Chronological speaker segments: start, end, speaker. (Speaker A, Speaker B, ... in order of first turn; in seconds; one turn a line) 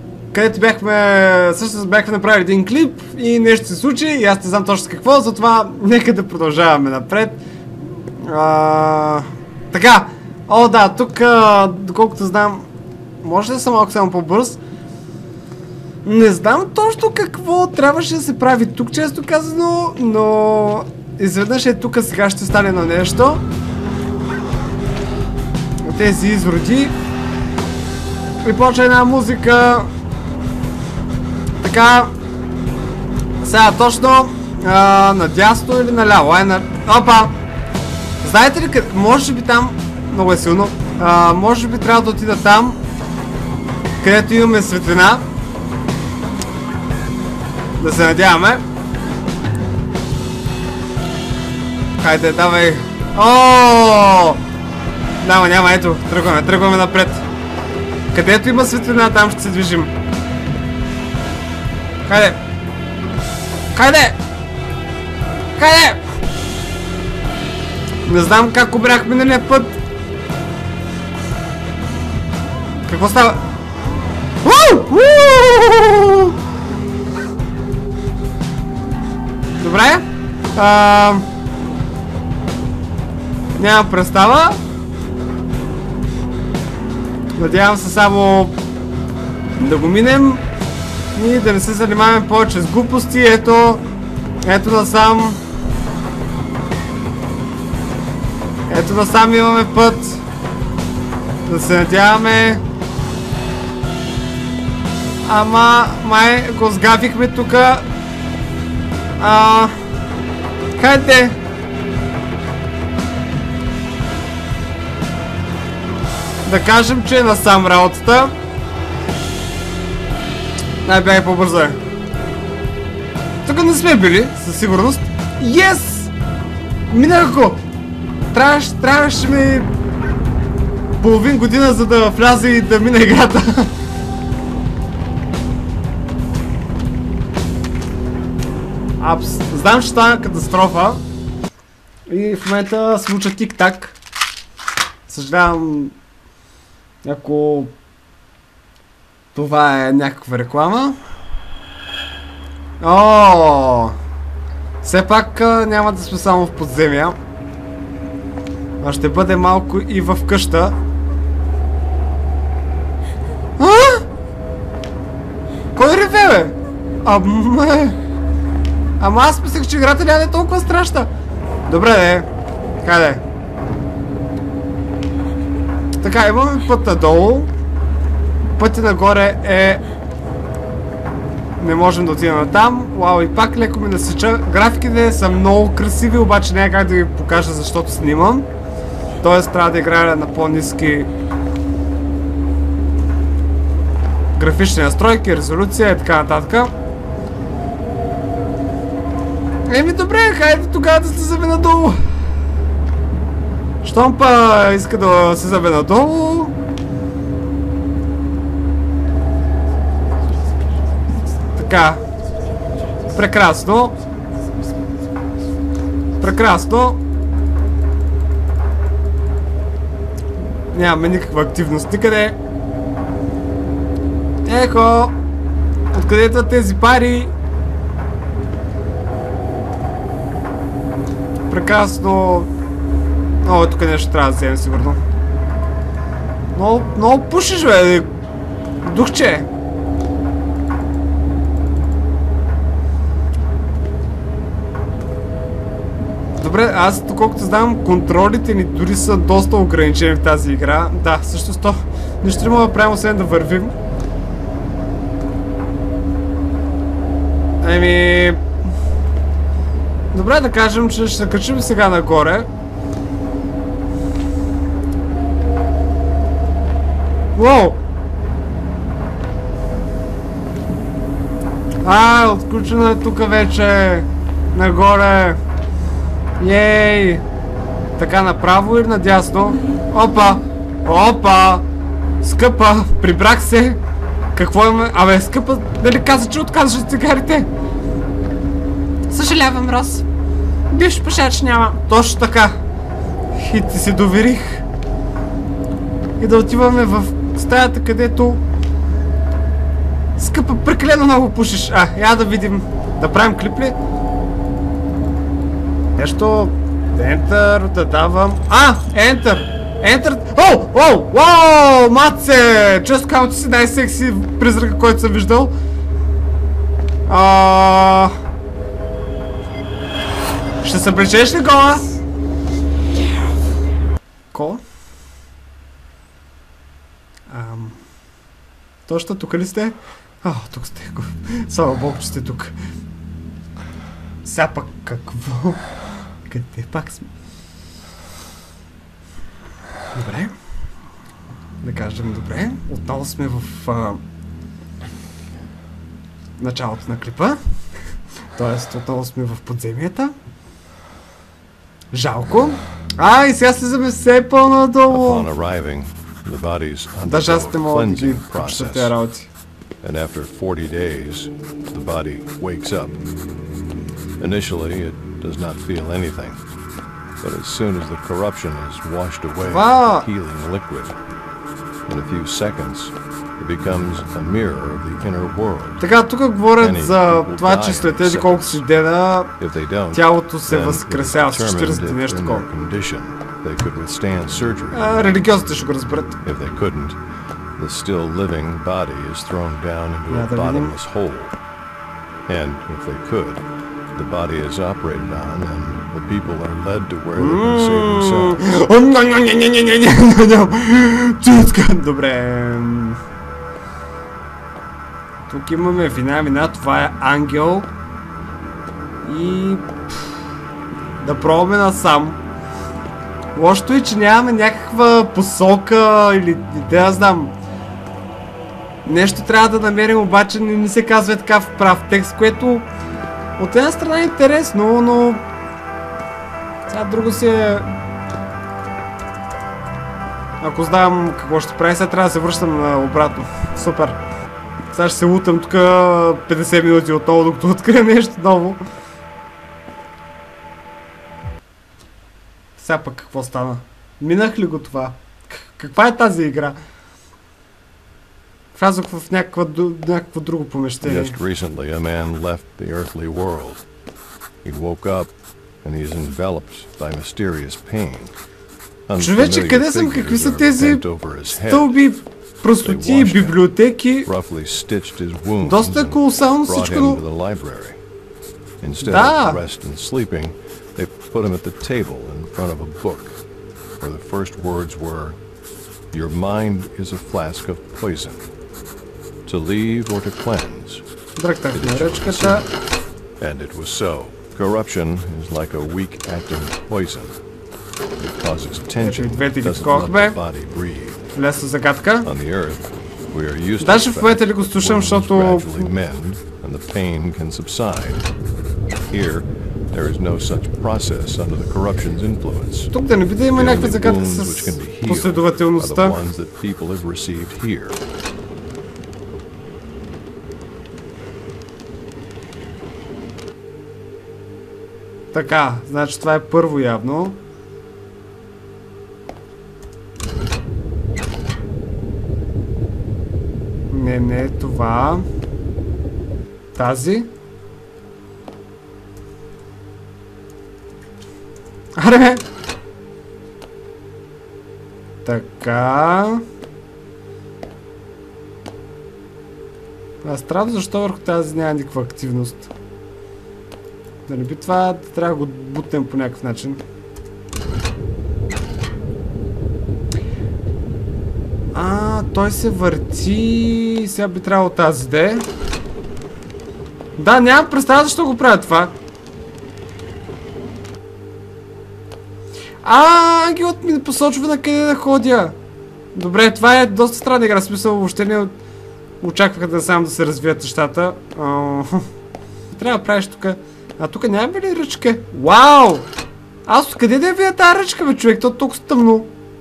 Speaker A: 0.3-7.4
Speaker A: 7.9-12.7
Speaker A: 13.2-14.6
Speaker A: 16.0-23.4
Speaker A: 25.9-26.9
Speaker A: 28.4-29.9
Speaker A: 31.6-32.1
Speaker A: 33.4-37.4
Speaker A: 38.2-42.8
Speaker A: 44.0-45.2
Speaker A: 47.8-48.6
Speaker A: 52.0-54.4
Speaker A: 55.2-57.2
Speaker A: 58.1-59.9
Speaker A: 62.1-62.4
Speaker A: 63.7-64.2
Speaker A: 65.6-66.0
Speaker A: 68.1-69.8
Speaker A: 72.9-73.4
Speaker A: 74.4-76.3
Speaker A: 79.6-81.3
Speaker A: 83.6-84.6
Speaker A: 87.4-88.5
Speaker A: 89.6-90.4
Speaker A: 91.2-93.8
Speaker A: 94.4-95.4
Speaker A: 98.7-100.2
Speaker A: 101.5-102.6
Speaker A: 105.2-107.9
Speaker A: 109.2-109.7
Speaker A: 110.8-111.3
Speaker A: 116.5-118.3
Speaker A: 120.8-121.8
Speaker A: 123.5-126.1
Speaker A: 126.9-127.6
Speaker A: 128.3-129.7
Speaker A: 131.0-133.7
Speaker A: 139.0-141.0
Speaker A: 142.1-144.0
Speaker A: 145.1-145.9
Speaker A: 147.0-147.7
Speaker A: 149.3-151.0
Speaker A: 152.8-154.0
Speaker A: 154.8-157.2
Speaker A: 158.8-160.8
Speaker A: 163.6-164.0
Speaker A: 165.8-168.0
Speaker A: 169.0-171.1
Speaker A: 171.7-172.3
Speaker A: 172.8-173.2
Speaker A: 176.0-177.5
Speaker A: 178.6-179.8
Speaker A: 181.6-188.5
Speaker A: 189.2-191.1
Speaker A: 194.4-196.7
Speaker A: 199.7-202.0
Speaker A: 203.8-206.5
Speaker A: 211.6-212.0
Speaker A: 213.1-214.0
Speaker A: 216.2-217.0
Speaker A: 220.7-222.4
Speaker A: 224.4-225.2
Speaker A: 225.9-227.3
Speaker A: 231.5-232.5
Speaker A: 233.4-235.0
Speaker A: 236.6-238.1
Speaker A: 238.8-239.5
Speaker A: 246.4-253.7
Speaker A: 257.6-258.4
Speaker A: 260.1-262.5
Speaker A: 267.4-267.8
Speaker A: 271.8-275.4
Speaker A: 276.4-277.2
Speaker A: 278.0-281.6
Speaker A: 282.2-283.8
Speaker A: 284.4-287.5
Speaker A: 289.1-290.1
Speaker A: 290.7-292.6
Speaker A: 293.3-294.6
Speaker A: 296.2-298.4
Speaker A: 300.2-303.8
Speaker A: 306.0-315.5
Speaker A: 317.1-318.1
Speaker A: 320.6-322.0
Speaker A: 324.3-324.6
Speaker A: 327.3-327.8
Speaker A: 328.9-332.6
Speaker A: 334.2-335.6
Speaker A: 336.3-337.1
Speaker A: 339.9-340.3
Speaker A: 341.6-344.0
Speaker A: 346.4-347.4
Speaker A: 348.4-350.1
Speaker A: 351.9-355.3
Speaker B: 354.9-358.9
Speaker A: 357.0-359.3
Speaker B: 359.8-363.0
Speaker B: 364.2-366.4
Speaker B: 367.2-371.0
Speaker A: 369.4-370.1
Speaker B: 371.9-375.8
Speaker A: 375.8-379.3
Speaker B: 376.6-378.6
Speaker B: 379.4-385.1
Speaker A: 379.9-382.5
Speaker A: 384.7-386.2
Speaker B: 386.2-387.0
Speaker B: 387.6-391.4
Speaker A: 390.1-390.8
Speaker B: 392.3-393.4
Speaker B: 393.9-398.4
Speaker A: 397.2-403.0
Speaker A: 405.3-407.7
Speaker A: 409.0-410.1
Speaker A: 411.0-412.2
Speaker A: 413.4-417.4
Speaker A: 418.9-422.7
Speaker A: 423.4-425.2
Speaker A: 426.7-427.7
Speaker A: 430.4-434.0
Speaker A: 434.7-438.6
Speaker A: 442.6-446.6
Speaker A: 448.5-451.2
Speaker B: 450.8-453.6
Speaker B: 454.4-455.1
Speaker B: 455.6-458.1
Speaker B: 458.9-461.8
Speaker A: 459.0-460.9
Speaker A: 461.4-464.1
Speaker B: 462.6-463.5
Speaker B: 464.1-467.8
Speaker A: 465.4-467.0
Speaker B: 468.6-473.2
Speaker A: 468.8-469.4
Speaker B: 473.8-475.2
Speaker B: 475.9-478.3
Speaker B: 479.3-480.8
Speaker A: 481.2-482.5
Speaker B: 481.5-482.5
Speaker B: 483.2-487.2
Speaker B: 488.0-491.0
Speaker A: 488.8-490.2
Speaker A: 491.1-492.1
Speaker B: 492.0-498.1
Speaker A: 493.6-495.7
Speaker B: 498.9-502.7
Speaker A: 502.7-506.0
Speaker B: 503.3-507.8
Speaker A: 515.1-517.2
Speaker A: 523.7-525.0
Speaker A: 526.5-527.1
Speaker A: 531.8-532.2
Speaker A: 535.0-536.2
Speaker A: 540.0-542.5
Speaker A: 544.1-546.6
Speaker A: 551.5-555.2
Speaker A: 557.0-558.8
Speaker A: 562.6-565.4
Speaker A: 566.0-568.3
Speaker A: 569.0-571.9
Speaker A: 572.5-575.9
Speaker A: 576.5-579.1